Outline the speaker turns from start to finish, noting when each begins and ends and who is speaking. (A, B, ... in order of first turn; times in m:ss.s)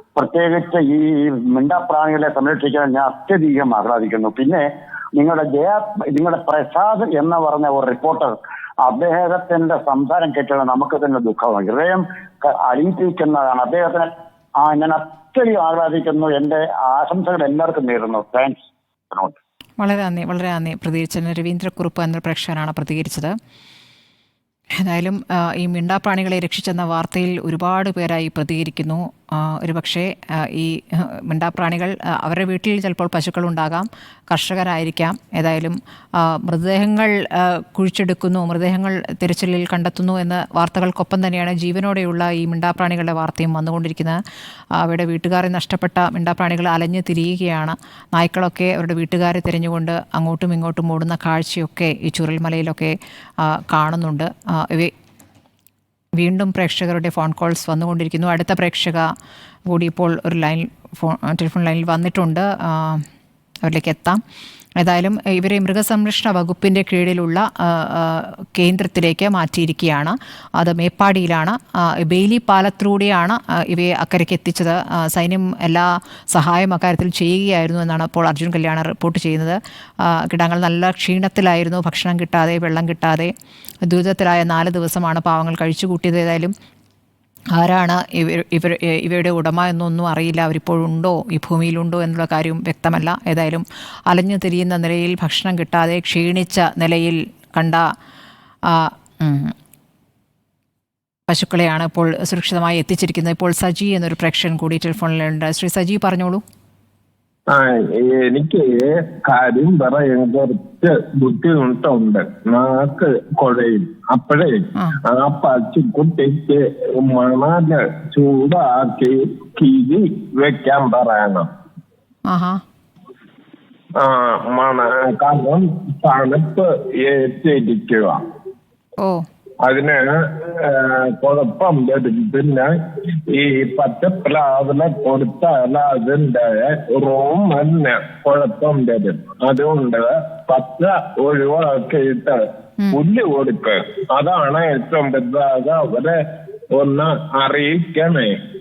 0:00.2-0:04.6 A
0:05.2-0:18.6 A
0:19.8-0:23.3 B
0:24.8-0:44.2 B
0:44.8-0:54.9 B
0:56.2-0:59.0 B
0:59.7-1:03.0 B
1:03.6-1:04.2 B
1:04.8-1:23.3 B
1:23.8-1:26.5 B
1:27.6-1:37.8 B
1:38.7-1:39.5 B
1:41.3-1:46.4 B
1:47.5-2:01.5 C
2:02.3-2:02.6 B
2:04.0-2:08.2 C
2:09.0-2:09.2 B
2:09.6-2:10.0 C
2:10.6-2:12.7 C
2:13.3-2:22.4 C
2:22.9-2:26.2 C
2:26.8-2:28.3 C